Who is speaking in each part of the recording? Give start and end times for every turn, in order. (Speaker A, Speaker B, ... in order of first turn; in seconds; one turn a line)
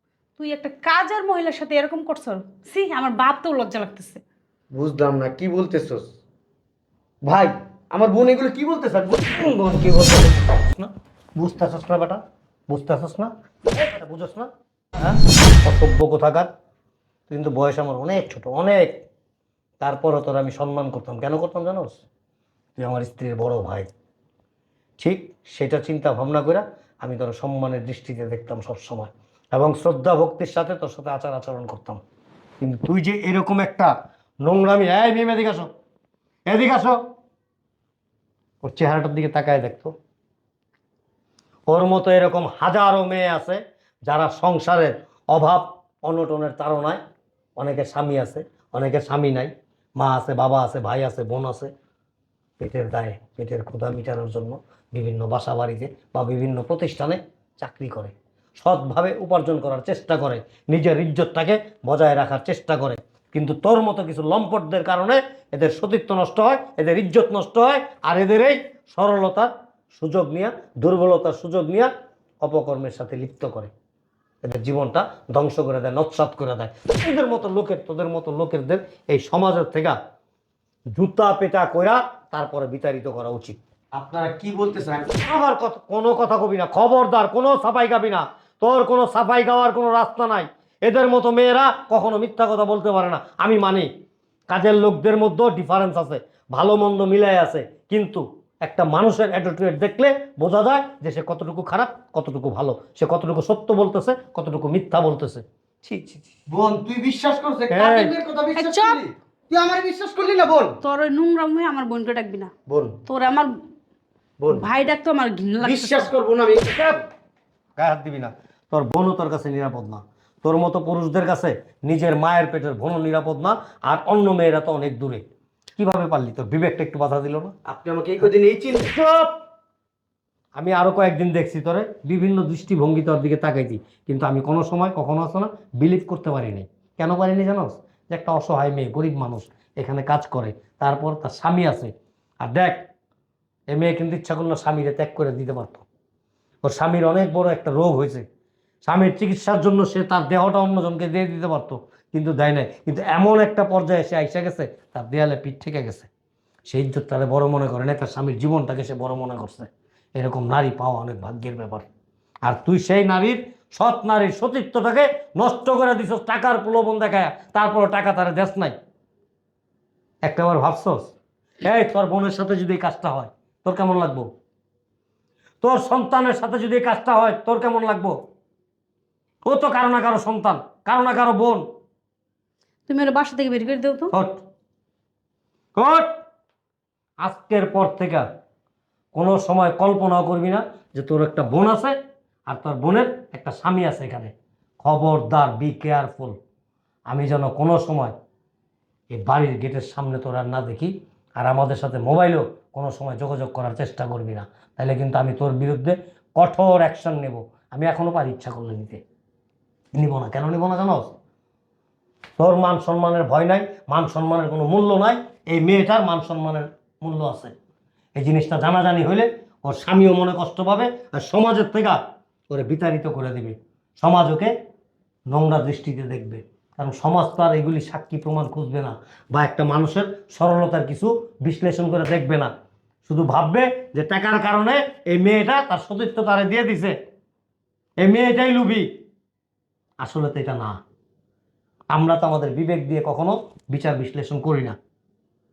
Speaker A: 0.4-4.2
Speaker B: 4.7-6.1
Speaker B: 7.2-9.2
Speaker C: 9.1-16.5
Speaker C: 17.3-19.0
Speaker C: 19.8-22.0
Speaker C: 22.8-23.9
Speaker C: 25.0-32.0
Speaker C: 32.6-35.7
Speaker C: 36.5-37.0
Speaker C: 38.6-39.9
Speaker C: 41.7-47.0
Speaker C: 47.6-51.7
Speaker C: 52.6-71.9
Speaker C: 72.4-73.7
Speaker C: 74.4-80.0
Speaker C: 80.9-83.6
Speaker B: 83.9-85.1
Speaker C: 85.1-93.9
Speaker C: 94.5-106.4
Speaker B: 106.5-110.8
Speaker C: 107.7-108.1
Speaker A: 108.5-109.0
Speaker A: 110.8-112.5
Speaker B: 112.7-113.0
Speaker A: 113.0-113.5
Speaker B: 114.4-114.7
Speaker A: 114.5-116.1
Speaker B: 115.6-117.0
Speaker C: 117.8-125.2
Speaker C: 125.8-127.5
Speaker B: 127.7-128.9
Speaker C: 128.9-129.3
Speaker C: 130.6-142.8
Speaker C: 143.7-145.9
Speaker C: 146.6-148.2
Speaker C: 148.8-156.1
Speaker C: 156.7-161.9
Speaker C: 162.4-168.8
Speaker C: 170.2-174.3
Speaker C: 175.6-178.2
Speaker C: 179.4-181.6
Speaker A: 182.9-184.1
Speaker C: 184.1-184.4
Speaker C: 185.8-186.1
Speaker C: 187.2-188.2
Speaker C: 189.1-191.9
Speaker C: 192.5-196.4
Speaker C: 197.1-198.1
Speaker C: 199.1-209.0
Speaker C: 209.9-211.2
Speaker C: 212.4-217.5
Speaker C: 218.2-224.5
Speaker C: 225.3-232.5
Speaker C: 233.1-236.9
Speaker C: 238.0-238.9
Speaker C: 240.0-240.8
Speaker C: 241.9-244.8